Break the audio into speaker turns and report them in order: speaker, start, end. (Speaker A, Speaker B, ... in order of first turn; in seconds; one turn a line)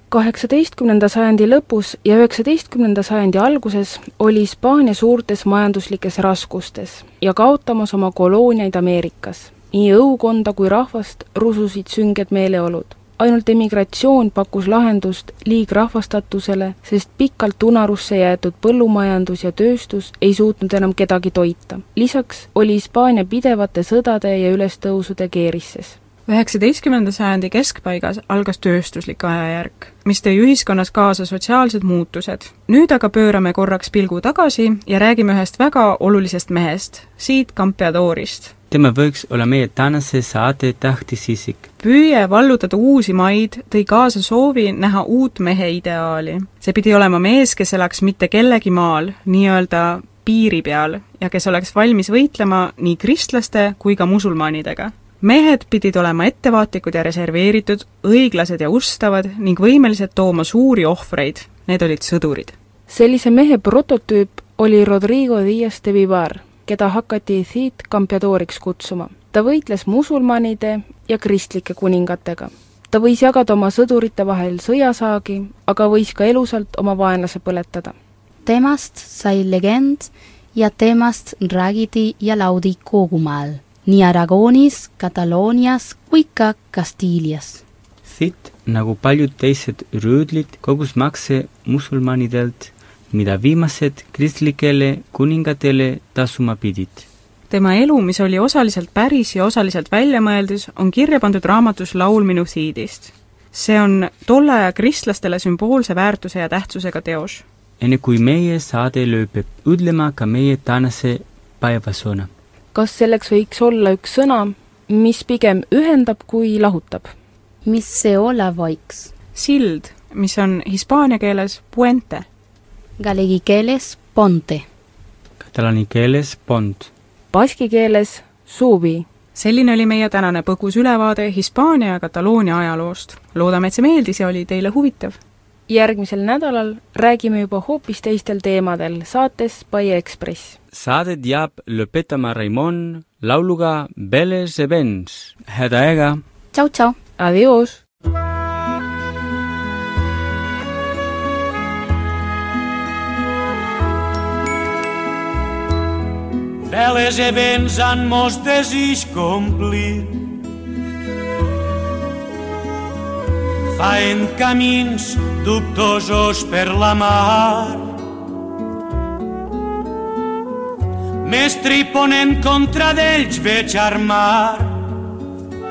Speaker A: 0.1-26.0
Speaker B: 26.3-38.5
Speaker C: 38.7-41.7
Speaker B: 41.8-62.5
Speaker A: 62.9-77.9
Speaker D: 78.4-87.6
Speaker C: 88.0-97.0
Speaker B: 97.5-107.4
Speaker C: 107.8-112.3
Speaker A: 112.7-117.1
Speaker D: 117.6-119.1
Speaker B: 119.3-122.2
Speaker D: 123.0-124.6
Speaker C: 125.4-126.9
Speaker A: 127.3-129.1
Speaker B: 129.3-135.2
Speaker A: 135.7-140.6
Speaker C: 140.7-146.2
Speaker D: 146.5-147.0
Speaker A: 147.2-147.8
Speaker E: 156.7-160.2
Speaker E: 163.8-167.8
Speaker E: 171.2-174.7